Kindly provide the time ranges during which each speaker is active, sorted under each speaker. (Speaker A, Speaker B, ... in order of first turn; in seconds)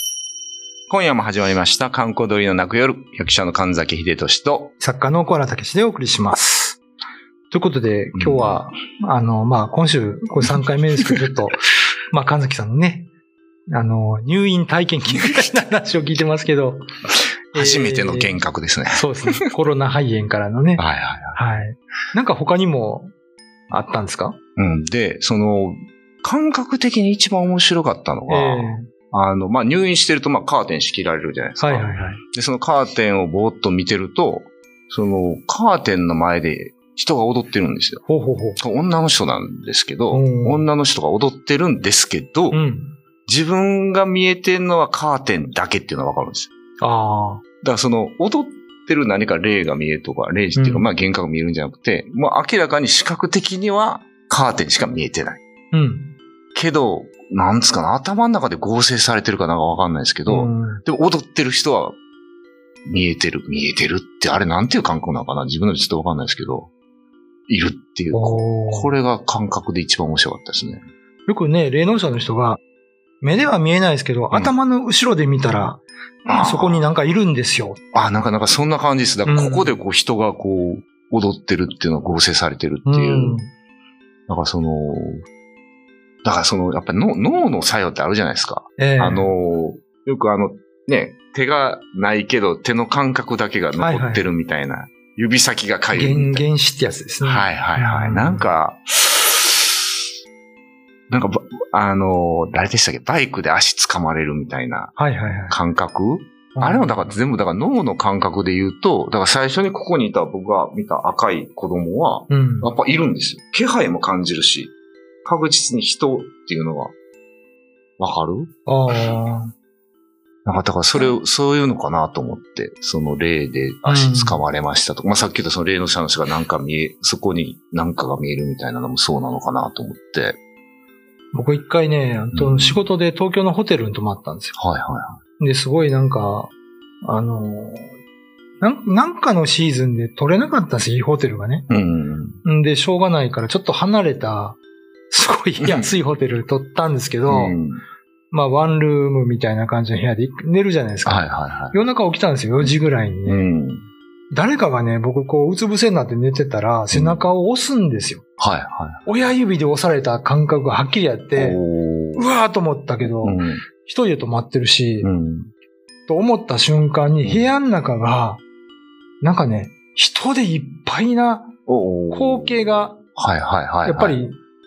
Speaker A: 0.9-4.7, 8.2-8.6, 15.0-15.5, 17.5-19.5, 20.8-21.4, 24.6-38.0, 38.6-42.6, 43.3-46.5, 47.6-55.4, 56.5-62.0, 62.9-66.7, 67.5-70.8, 76.2-76.9, 77.9-83.4, 84.3-85.2, 86.2-96.5, 97.2-99.8, 101.1-114.7, 115.2-116.9, 118.0-118.5, 120.5-130.4, 132.3-132.8, 134.6-135.2, 141.7-142.4, 145.6-145.9, 147.3-147.8, 151.1-151.8, 153.2-153.9, 156.9-157.3, 158.4-159.1, 161.3-162.3, 163.1-163.6, 165.0-165.5, 167.2-167.5, 171.7-174.2
Speaker B: 4.8-6.8, 7.5-13.1, 13.7-16.9, 17.5-18.4, 18.9-20.8, 21.3-23.1, 23.7-24.4, 28.3-28.9, 31.6-32.2, 38.1-38.6, 40.1-40.7, 42.5-43.0, 46.8-47.4, 50.5-50.9, 55.7-56.2, 60.3-60.8, 68.1-69.0, 71.3-72.6, 73.2-77.8, 79.2-79.8, 82.9-83.5, 88.8-89.3, 93.8-94.3, 95.9-98.5, 105.0-105.6, 106.5-107.2, 112.3-112.7, 118.7-119.5, 123.9-124.4, 131.3-134.5, 135.4-136.5, 137.0-137.9, 138.6-141.7, 142.4-144.6, 145.1-147.6, 148.3-153.5, 154.3-158.2, 159.1-161.6, 162.1-165.1, 166.1-168.4, 169.2-171.5, 172.1-173.0, 173.8-174.4